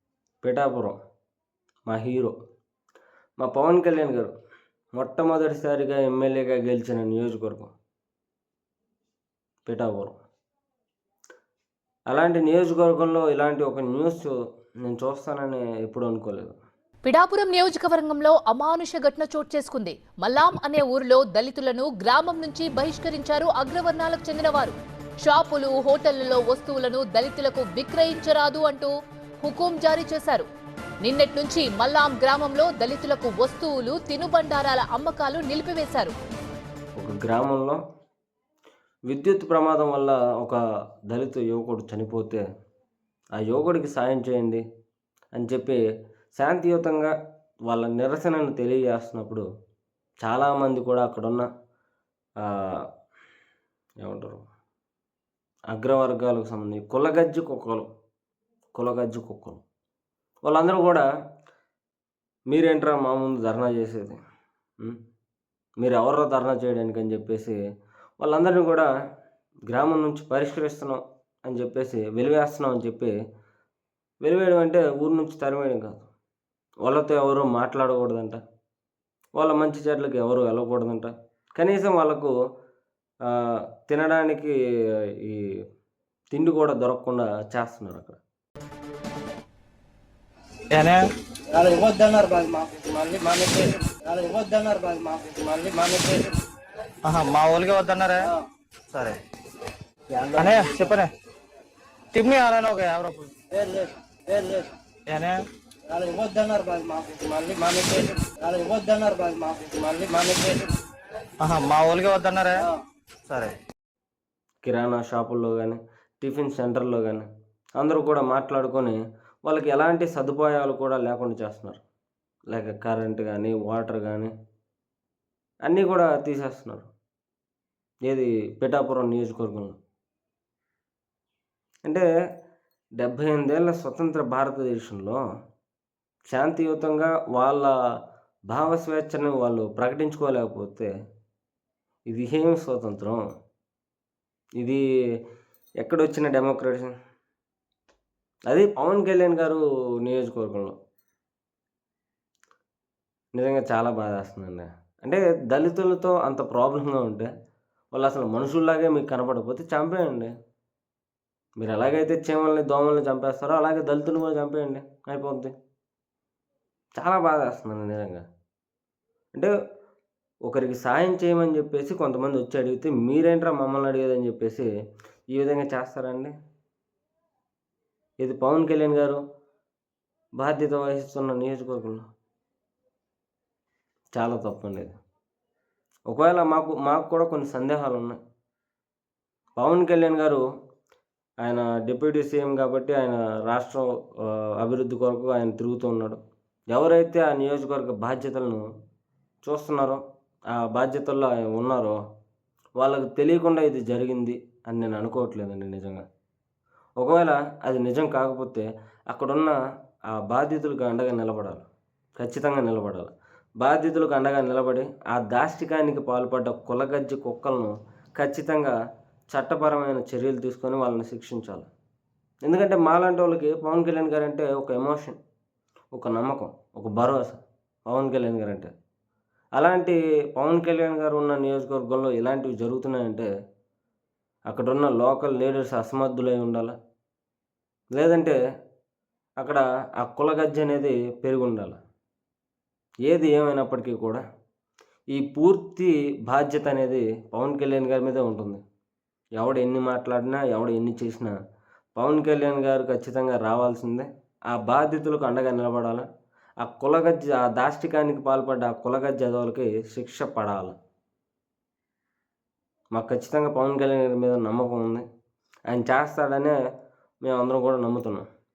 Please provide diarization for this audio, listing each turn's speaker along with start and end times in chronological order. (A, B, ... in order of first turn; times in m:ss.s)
0:00.4-0:01.0 A
0:01.9-0:02.3 A
0:03.4-0:04.3 A
0:05.0-0:07.7 A
0:09.6-0:10.2 A
0:12.1-0:14.4 A
0:14.9-0:16.6 A
0:17.0-0:28.9 B
0:29.4-0:30.5 B
0:31.0-0:36.1 B
0:37.0-0:37.8 A
0:39.1-0:40.6 A
0:41.1-0:42.4 A
0:43.4-0:44.6 A
0:45.4-0:45.8 A
0:46.4-0:47.1 A
0:47.7-0:49.4 A
0:50.2-0:51.5 A
0:54.0-0:54.4 A
0:55.7-0:57.9 A
0:58.8-0:59.6 A
1:00.5-1:01.1 A
1:02.5-1:04.2 A
1:05.8-1:07.6 A
1:08.2-1:08.9 A
1:09.7-1:13.1 A
1:14.2-1:16.1 A
1:16.8-1:18.4 A
1:19.4-1:22.3 A
1:23.3-1:24.6 A
1:26.3-1:28.2 A
1:30.7-1:31.0 C
1:31.5-1:36.4 D
1:37.0-1:38.3 C
1:38.9-1:39.2 C
1:40.1-1:40.7 D
1:40.4-1:41.1 C
1:42.1-1:43.3 C
1:43.5-1:44.7 D
1:45.1-1:45.4 C
1:45.9-1:50.7 D
1:51.4-1:52.7 C
1:53.3-1:53.6 C
1:54.6-1:57.3 A
1:57.8-2:01.8 A
2:02.5-2:04.3 A
2:05.7-2:06.9 A
2:08.1-2:09.8 A
2:13.0-2:15.2 A
2:16.3-2:17.7 A
2:18.5-2:20.9 A
2:22.1-2:23.2 A
2:25.8-2:26.9 A
2:28.5-2:30.7 A
2:33.4-2:37.3 A
2:37.9-2:40.3 A
2:41.6-2:45.5 A
2:47.0-2:48.2 A
2:50.5-2:54.7 A
2:55.3-2:56.3 A
2:58.2-2:59.2 A
3:00.4-3:02.0 A
3:04.2-3:05.0 A
3:06.1-3:08.2 A
3:09.6-3:10.4 A
3:11.4-3:13.9 A
3:14.6-3:16.2 A
3:16.7-3:18.6 A
3:19.4-3:20.0 A
3:20.5-3:22.0 A
3:22.8-3:26.0 A
3:27.0-3:29.6 A
3:30.1-3:31.7 A
3:32.2-3:38.8 A
3:39.3-3:41.7 A
3:42.5-3:45.2 A
3:45.9-3:48.7 A
3:49.6-3:53.3 A
3:54.5-3:56.7 A
3:58.0-3:58.4 A
3:59.4-4:01.8 A
4:03.1-4:04.2 A
4:05.1-4:08.6 A
4:09.4-4:11.3 A
4:12.0-4:16.1 A
4:16.6-4:20.8 A
4:22.9-4:25.0 A
4:25.7-4:26.6 A
4:27.2-4:28.3 A